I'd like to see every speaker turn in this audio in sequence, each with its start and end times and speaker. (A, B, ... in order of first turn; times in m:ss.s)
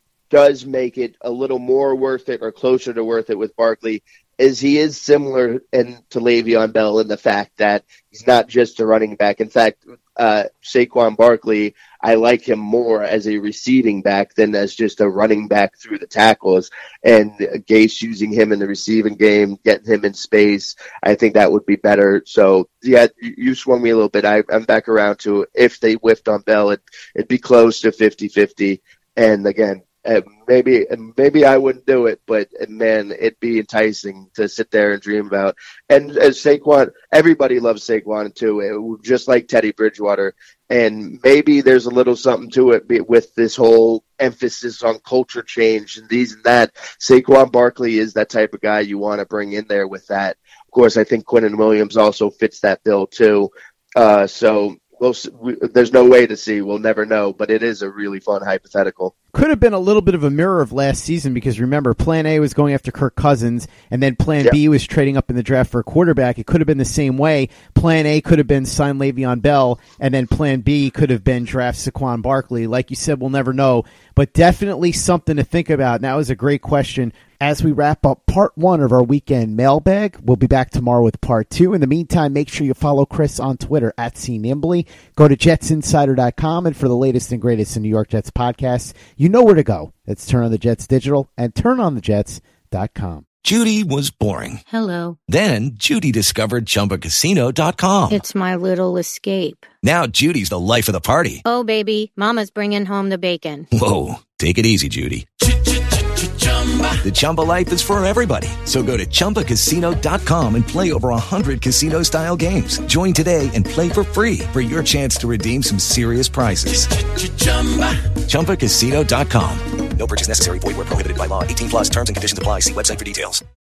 0:00.3-0:59.1 A
0:59.3-1:33.2 B
1:33.4-1:34.6 C
1:34.7-1:35.2 D
1:35.3-1:38.2 C
1:38.1-1:39.7 D
1:39.8-1:41.4 C
1:41.4-1:43.7 D
1:43.7-1:45.2 C
1:47.0-1:56.9 C
1:58.2-1:59.6 C
2:00.0-2:03.4 E